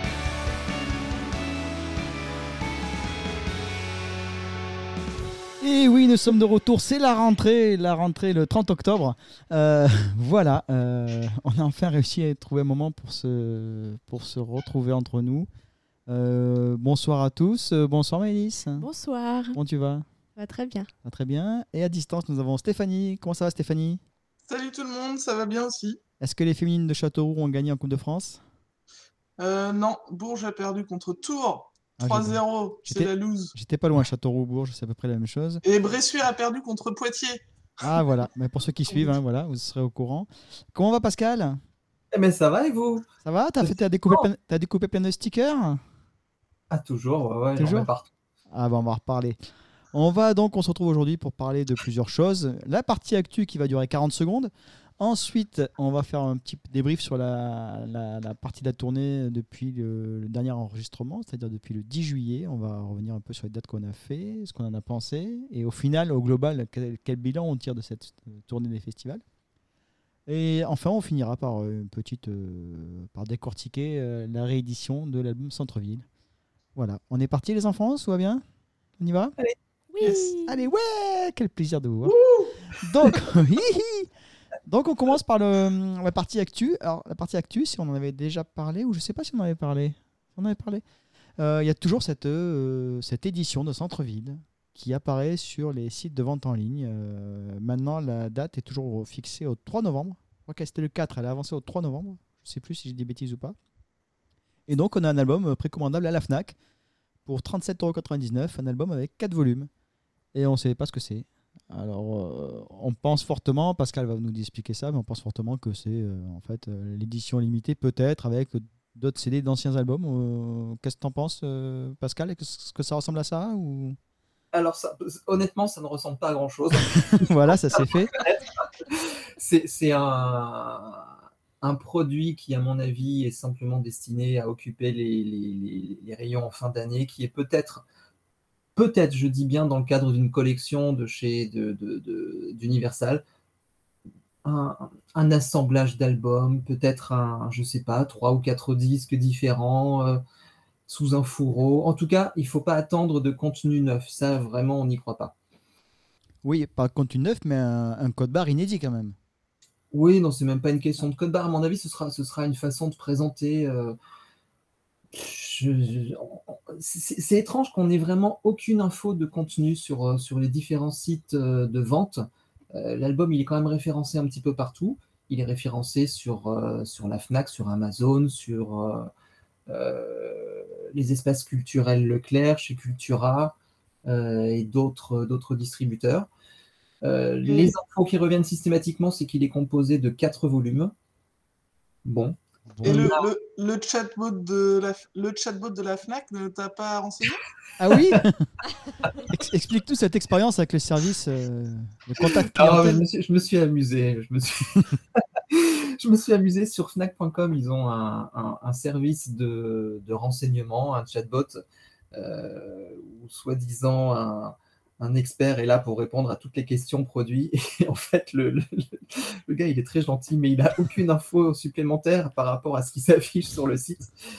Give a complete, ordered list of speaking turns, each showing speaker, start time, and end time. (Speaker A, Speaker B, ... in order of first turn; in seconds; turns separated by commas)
Speaker A: 5.6-15.5, Speaker A: 16.1-18.9, Speaker B: 18.8-19.6, Speaker A: 19.5-20.1, Speaker B: 20.4-20.9, Speaker A: 21.0-24.0, Speaker C: 24.5-26.0, Speaker A: 26.2-28.4, Speaker C: 29.4-33.5, Speaker A: 32.0-35.6, Speaker C: 35.6-37.4, Speaker A: 37.8-41.6, Speaker D: 42.1-43.1, Speaker A: 43.2-45.8, Speaker D: 43.6-44.3, Speaker D: 46.7-48.0, Speaker A: 47.6-47.9, Speaker A: 48.5-49.4, Speaker A: 49.9-69.2, Speaker A: 70.3-76.0, Speaker A: 76.8-78.4, Speaker A: 79.0-79.3, Speaker B: 79.9-80.5, Speaker A: 80.0-82.2, Speaker D: 82.0-83.1, Speaker A: 82.8-84.1, Speaker A: 84.7-90.8, Speaker A: 91.4-103.6, Speaker A: 104.7-106.5, Speaker A: 107.2-109.7, Speaker A: 110.3-124.0, Speaker D: 124.5-131.1, Speaker A: 126.9-128.2, Speaker D: 131.6-137.8, Speaker D: 138.8-143.2, Speaker D: 144.4-150.2, Speaker D: 150.9-155.3, Speaker A: 156.4-159.2, Speaker D: 159.9-164.0, Speaker D: 165.1-179.1, Speaker D: 179.7-183.6, Speaker D: 184.1-186.3, Speaker D: 187.0-190.9, Speaker C: 187.4-187.7, Speaker D: 192.1-193.3, Speaker A: 192.7-193.1, Speaker C: 192.8-197.4, Speaker A: 197.8-198.5, Speaker D: 197.9-198.2, Speaker A: 199.2-203.0, Speaker D: 202.2-211.6, Speaker D: 212.1-224.1